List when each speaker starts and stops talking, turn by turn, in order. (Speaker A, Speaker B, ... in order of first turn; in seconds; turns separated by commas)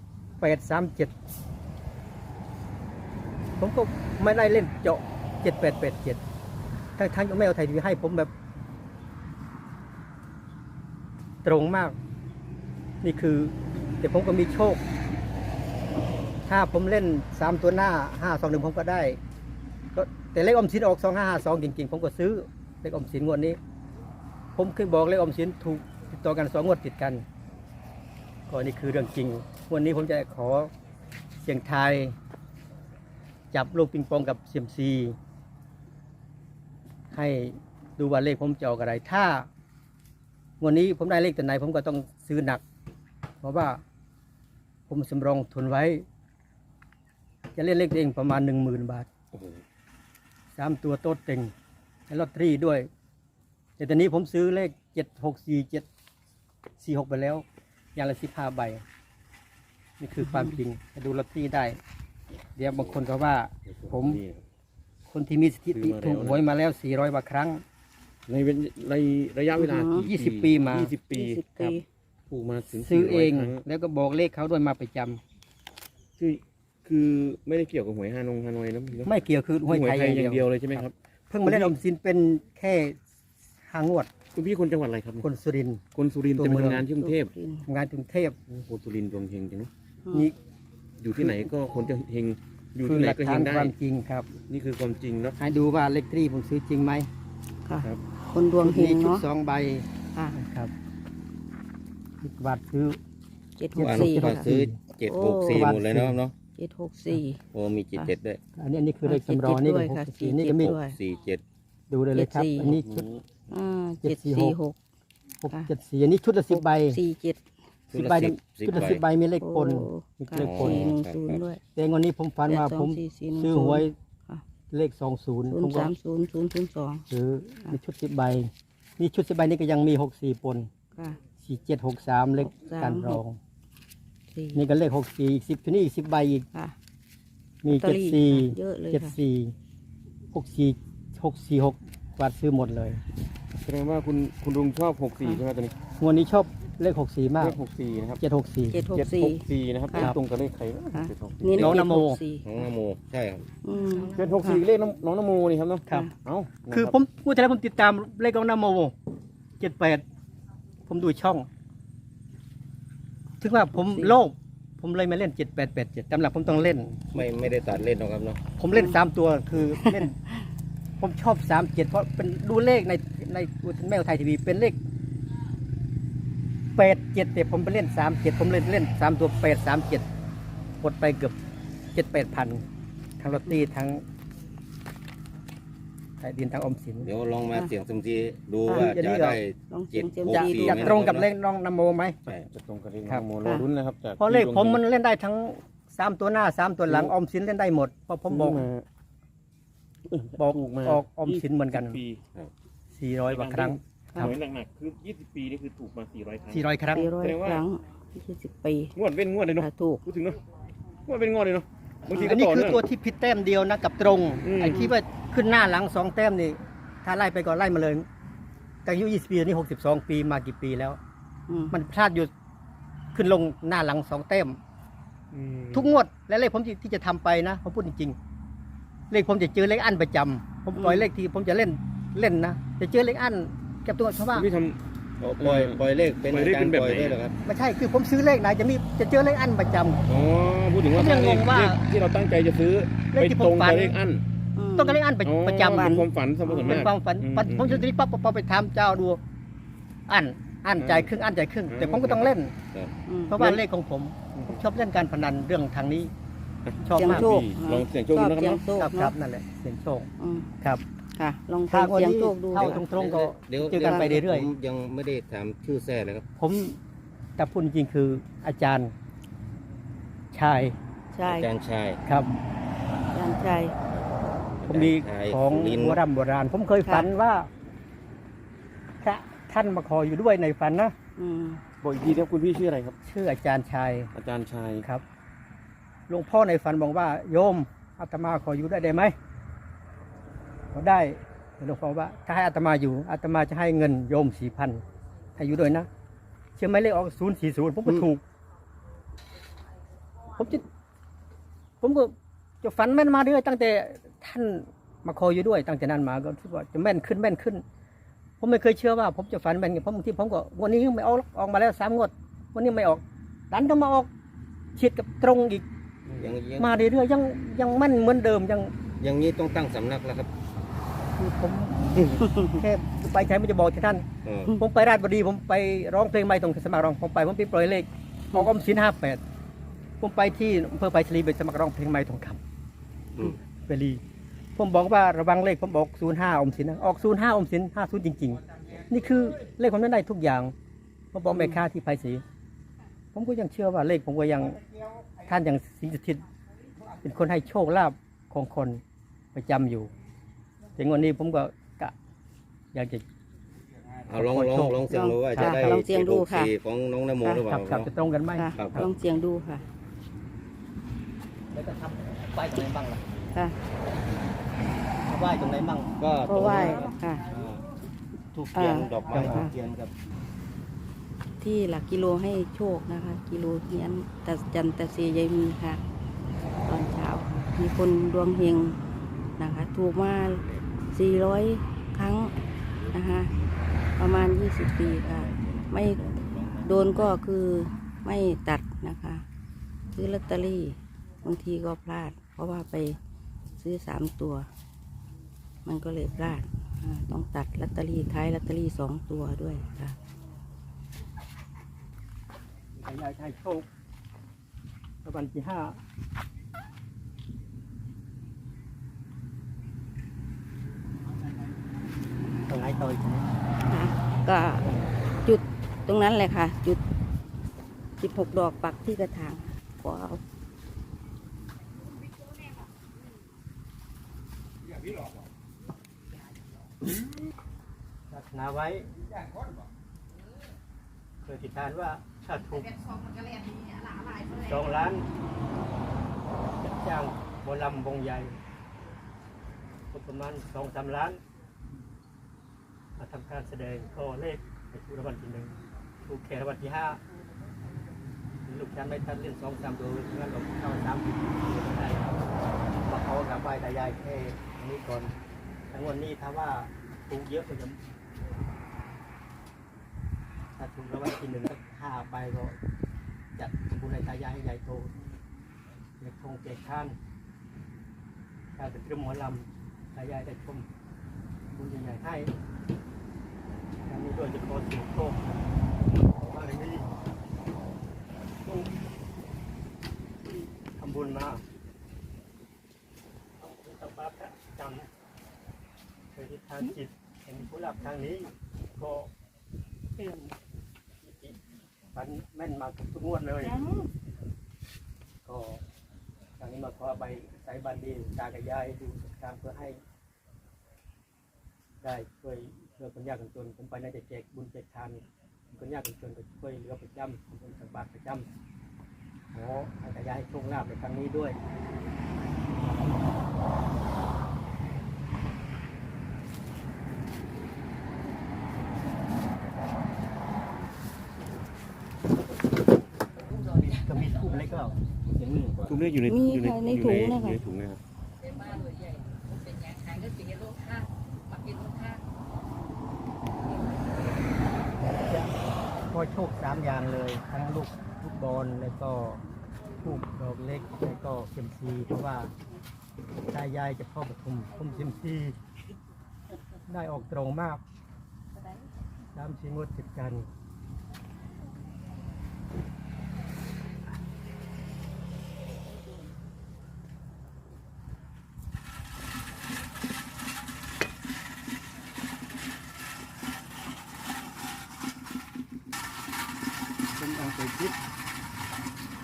Speaker A: 0.4-1.1, Speaker A: 3.6-6.2, Speaker A: 7.0-8.3, Speaker A: 11.4-11.9, Speaker A: 13.0-14.8, Speaker A: 16.5-19.2, Speaker A: 19.9-23.6, Speaker A: 24.6-27.2, Speaker A: 28.5-30.7, Speaker A: 31.4-32.1, Speaker A: 33.5-35.2, Speaker A: 37.1-39.5, Speaker A: 40.6-42.6, Speaker A: 43.4-43.8, Speaker A: 44.9-46.0, Speaker A: 47.5-49.1, Speaker B: 49.3-49.6, Speaker A: 50.5-51.5, Speaker A: 52.1-52.9, Speaker A: 53.8-55.9, Speaker A: 56.8-57.4, Speaker A: 58.0-58.8, Speaker A: 60.0-61.8, Speaker C: 60.2-60.5, Speaker A: 62.6-64.2, Speaker B: 62.7-63.0, Speaker B: 63.7-64.4, Speaker A: 65.1-67.6, Speaker B: 65.7-66.4, Speaker B: 68.3-71.8, Speaker C: 69.5-70.1, Speaker A: 70.0-70.9, Speaker C: 71.1-71.8, Speaker B: 72.3-73.6, Speaker A: 72.7-75.2, Speaker B: 76.2-80.9, Speaker A: 79.0-83.0, Speaker B: 81.4-81.7, Speaker A: 83.7-84.1, Speaker B: 84.3-85.2, Speaker A: 85.2-85.8, Speaker B: 85.9-87.3, Speaker A: 86.4-86.9, Speaker C: 87.0-87.7, Speaker A: 87.7-88.4, Speaker B: 88.5-89.7, Speaker C: 90.0-90.3, Speaker B: 91.0-93.7, Speaker A: 91.2-91.5, Speaker A: 92.8-94.3, Speaker B: 94.5-95.3, Speaker A: 95.4-97.1, Speaker C: 97.6-99.2, Speaker A: 98.6-100.7, Speaker A: 102.2-103.0, Speaker C: 103.6-104.5, Speaker A: 103.8-104.8, Speaker D: 103.8-106.3, Speaker C: 105.0-105.7, Speaker A: 105.5-106.2, Speaker C: 106.5-107.4, Speaker D: 107.5-108.4, Speaker A: 108.6-110.8, Speaker C: 109.0-110.9, Speaker D: 110.5-111.4, Speaker A: 111.9-113.0, Speaker C: 112.1-112.7, Speaker B: 112.6-113.2, Speaker C: 113.5-114.8, Speaker A: 114.0-114.6, Speaker A: 115.4-117.0, Speaker C: 116.5-117.4, Speaker D: 117.9-119.0, Speaker A: 117.9-120.9, Speaker C: 119.4-121.6, Speaker D: 120.3-121.4, Speaker A: 121.8-123.9, Speaker C: 122.5-124.4, Speaker A: 124.7-125.9, Speaker C: 125.5-127.0, Speaker A: 127.1-130.7, Speaker A: 131.4-133.4, Speaker C: 132.4-133.2, Speaker C: 134.3-134.6, Speaker A: 134.5-136.4, Speaker A: 137.6-139.5, Speaker C: 137.7-139.1, Speaker A: 140.3-143.0, Speaker B: 143.6-145.7, Speaker A: 146.0-147.6, Speaker B: 147.4-148.2, Speaker A: 148.2-148.8, Speaker C: 148.7-150.1, Speaker B: 148.9-151.7, Speaker C: 150.9-152.6, Speaker A: 151.6-152.2, Speaker D: 152.4-153.4, Speaker C: 153.6-154.6, Speaker B: 154.1-156.9, Speaker A: 156.7-158.9, Speaker A: 159.6-160.0, Speaker A: 160.9-161.5, Speaker A: 163.4-167.2, Speaker C: 163.7-164.1, Speaker D: 167.1-168.4, Speaker A: 168.6-170.1, Speaker C: 169.8-170.3, Speaker A: 171.0-174.8, Speaker A: 176.8-180.1, Speaker A: 180.8-181.3, Speaker A: 181.9-182.6, Speaker A: 183.2-184.0, Speaker A: 186.2-187.1, Speaker D: 187.0-191.3, Speaker C: 188.7-188.9, Speaker A: 188.7-189.4, Speaker C: 189.7-191.0, Speaker A: 190.3-192.2, Speaker B: 192.3-194.8, Speaker A: 194.2-198.7, Speaker B: 196.9-197.1, Speaker B: 198.3-198.8, Speaker B: 200.1-202.2, Speaker A: 200.4-202.0, Speaker A: 202.9-204.3, Speaker B: 203.3-206.7, Speaker A: 206.5-207.1, Speaker C: 206.9-208.9, Speaker B: 207.2-207.6, Speaker B: 208.9-210.4, Speaker C: 209.6-210.0, Speaker B: 211.1-212.8, Speaker A: 212.1-218.0, Speaker B: 214.4-214.8, Speaker A: 218.8-221.0, Speaker C: 221.5-221.7, Speaker A: 221.7-222.3, Speaker A: 223.1-224.6, Speaker B: 225.3-225.9, Speaker A: 225.7-228.2, Speaker A: 229.1-234.5, Speaker C: 230.8-231.1, Speaker B: 234.3-234.8, Speaker D: 235.2-237.3, Speaker B: 235.4-237.2, Speaker A: 237.4-240.0, Speaker B: 240.1-244.2, Speaker A: 240.9-241.8, Speaker A: 243.1-244.0, Speaker C: 244.6-245.0, Speaker A: 244.8-246.1, Speaker B: 245.2-247.9, Speaker C: 246.4-246.8, Speaker A: 246.6-249.2, Speaker A: 250.1-252.5, Speaker B: 250.8-251.1, Speaker B: 251.7-252.3, Speaker C: 253.1-253.4, Speaker A: 253.3-256.1, Speaker B: 254.3-254.6, Speaker B: 256.6-258.6, Speaker A: 256.8-257.3, Speaker C: 257.0-259.1, Speaker A: 258.8-260.1, Speaker C: 260.2-260.5, Speaker C: 261.1-262.8, Speaker A: 261.7-264.5, Speaker D: 262.5-266.2, Speaker C: 263.8-264.1, Speaker A: 266.4-266.8, Speaker A: 267.4-268.9, Speaker A: 270.3-270.8, Speaker C: 271.1-271.5, Speaker D: 271.2-272.0, Speaker A: 272.0-272.4, Speaker C: 273.1-273.7, Speaker D: 273.9-276.0, Speaker A: 274.7-277.5, Speaker A: 279.0-280.9, Speaker C: 281.2-281.6, Speaker B: 281.8-282.9, Speaker A: 283.0-284.1, Speaker B: 284.1-284.9, Speaker A: 286.1-289.1, Speaker A: 290.7-294.8, Speaker A: 295.4-295.9, Speaker A: 296.6-298.2, Speaker A: 300.4-300.6, Speaker A: 301.8-307.6, Speaker A: 308.4-314.1, Speaker A: 314.8-315.6, Speaker D: 316.2-316.7, Speaker A: 316.5-318.7, Speaker D: 319.0-320.3, Speaker A: 321.2-329.2, Speaker D: 324.2-324.6, Speaker A: 330.0-332.4, Speaker A: 333.6-334.0, Speaker A: 334.6-340.5, Speaker A: 341.1-342.2, Speaker A: 343.1-344.6, Speaker A: 345.2-346.2, Speaker A: 347.0-348.8, Speaker A: 349.3-349.9, Speaker A: 350.8-351.9, Speaker A: 352.7-353.0, Speaker D: 354.1-357.9, Speaker A: 354.1-354.8, Speaker C: 354.9-356.5, Speaker A: 355.3-355.8, Speaker C: 357.2-357.5, Speaker A: 357.4-358.9, Speaker C: 358.3-359.6, Speaker D: 358.6-358.9, Speaker A: 361.5-363.0, Speaker A: 365.1-366.8, Speaker D: 366.0-367.6, Speaker C: 366.2-367.2, Speaker D: 368.3-369.9, Speaker C: 368.5-369.5, Speaker A: 369.1-369.5, Speaker C: 371.4-375.8, Speaker C: 376.6-378.8, Speaker C: 379.4-382.3, Speaker D: 382.8-383.5, Speaker C: 382.9-383.3, Speaker C: 384.0-389.2, Speaker D: 384.8-387.1, Speaker C: 389.9-393.0, Speaker C: 393.6-394.5, Speaker C: 395.6-399.9, Speaker A: 402.8-403.7, Speaker A: 405.0-405.8, Speaker A: 412.5-413.3, Speaker C: 413.7-414.6, Speaker C: 415.2-416.8, Speaker C: 418.0-420.2, Speaker A: 428.1-428.9, Speaker A: 431.2-432.8, Speaker A: 434.2-435.1, Speaker A: 436.6-438.4, Speaker A: 439.9-441.2, Speaker A: 443.0-445.5, Speaker A: 446.1-447.0, Speaker A: 448.4-452.1, Speaker A: 452.8-455.1, Speaker A: 455.7-457.8, Speaker A: 460.6-462.6, Speaker A: 463.4-464.9, Speaker A: 466.0-466.9, Speaker A: 468.6-470.7, Speaker A: 471.5-472.3, Speaker A: 473.9-476.9, Speaker A: 480.8-481.4, Speaker A: 483.4-484.9, Speaker A: 486.1-489.1, Speaker A: 490.0-490.3, Speaker A: 491.0-491.4, Speaker A: 491.9-493.8, Speaker A: 495.2-495.6, Speaker A: 496.4-499.8, Speaker A: 501.8-508.3, Speaker A: 509.3-511.4, Speaker A: 523.3-524.8, Speaker D: 525.1-525.7, Speaker B: 525.7-527.8, Speaker C: 526.1-527.4, Speaker A: 534.8-535.3, Speaker A: 535.9-539.2, Speaker A: 539.8-542.3, Speaker A: 543.3-545.4, Speaker A: 546.7-547.6, Speaker A: 549.1-550.3, Speaker A: 567.0-567.8